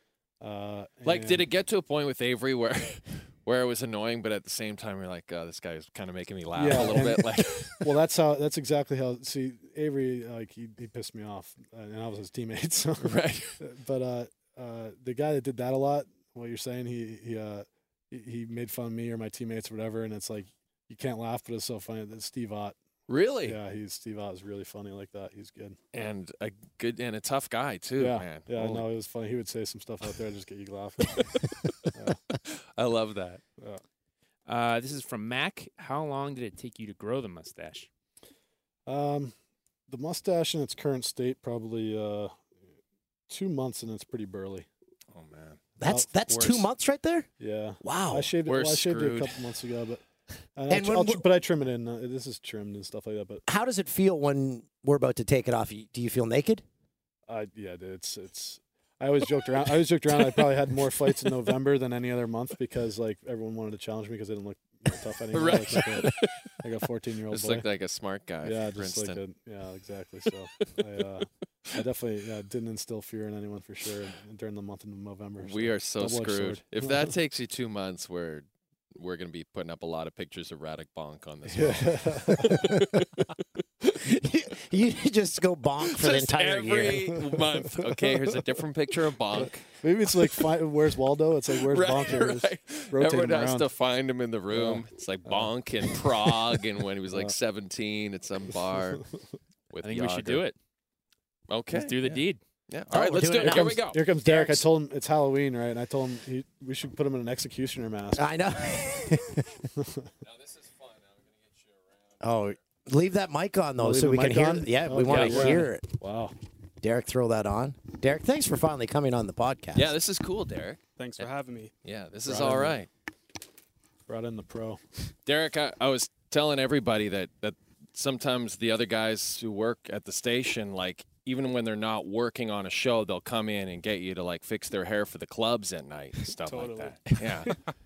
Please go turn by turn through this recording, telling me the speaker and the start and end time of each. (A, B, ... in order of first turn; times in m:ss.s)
0:00.4-0:01.4 A
0:01.0-0:07.9 B
0:06.5-0:22.8 A
0:13.0-0:13.6 B
0:23.1-0:23.6 B
0:23.4-0:25.8 A
0:25.9-0:28.9 B
0:28.0-0:31.4 A
0:32.4-0:33.4 B
0:34.4-0:37.9 C
0:38.9-0:39.3 A
0:39.9-0:42.3 A
0:43.3-0:44.7 A
0:45.1-0:45.6 B
0:45.8-0:47.3 D
0:45.8-0:46.6 A
0:47.4-0:50.0 A
0:47.8-0:48.3 D
0:48.4-0:49.4 B
0:50.6-0:53.4 A
0:50.7-0:51.2 D
0:53.5-0:56.6 D
0:57.3-1:07.6 A
1:00.1-1:01.1 B
1:05.3-1:06.5 B
1:07.3-1:09.2 B
1:08.4-1:17.1 A
1:15.4-1:23.1 B
1:21.5-1:22.7 A
1:24.0-1:27.2 D
1:25.8-1:29.7 B
1:29.3-1:33.7 A
1:31.6-1:39.0 B
1:34.5-1:36.4 A
1:39.7-1:40.5 B
1:39.8-1:40.6 C
1:41.5-1:44.5 B
1:41.7-1:42.4 C
1:42.9-1:44.6 D
1:43.4-1:48.2 A
1:48.2-1:49.4 D
1:49.8-1:50.1 A
1:50.2-1:52.5 B
1:52.2-1:55.9 D
1:53.8-1:56.3 A
1:55.1-1:55.6 B
1:56.8-1:59.9 D
1:59.7-2:01.3 B
2:01.0-2:01.7 E
2:01.8-2:02.9 B
2:02.2-2:02.8 A
2:04.1-2:04.8 A
2:05.2-2:17.5 B
2:16.4-2:17.6 E